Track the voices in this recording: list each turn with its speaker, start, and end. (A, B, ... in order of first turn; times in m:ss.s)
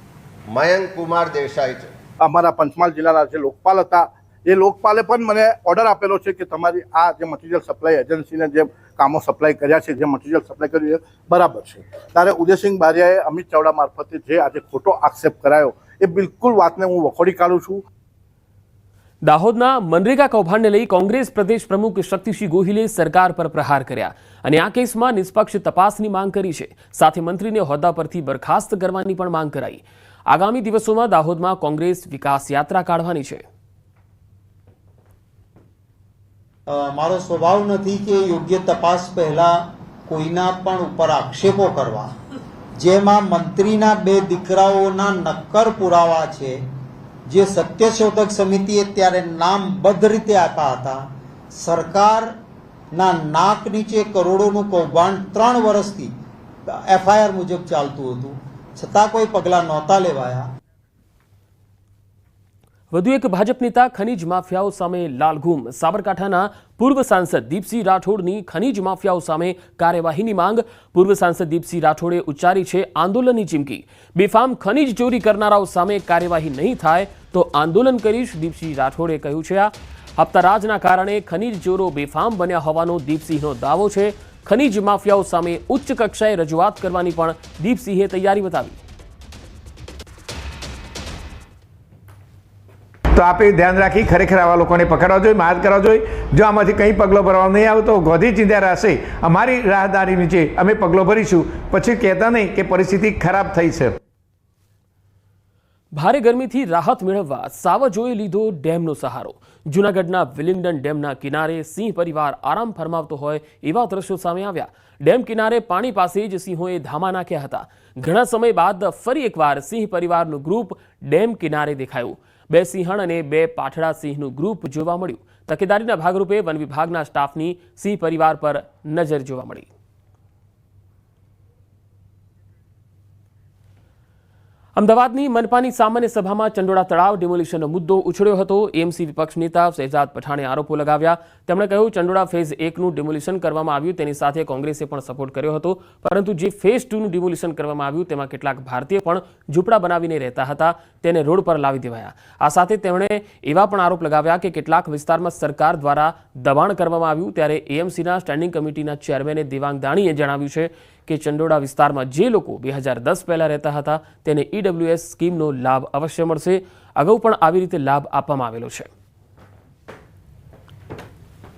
0:00.5-0:01.9 A
0:02.2-0:17.8 B
0:19.2-0:33.4 C
0:36.7-0:42.1 D
0:42.8-0:46.6 D
0:47.3-0:51.0 D
0:51.5-0:52.3 D
0:52.9-0:56.1 D
0:56.7-1:00.4 D
1:02.9-1:28.8 C
1:33.2-1:43.8 E
1:33.3-1:33.8 A
1:36.5-1:43.8 A
1:45.9-2:09.7 C
2:14.8-2:48.9 C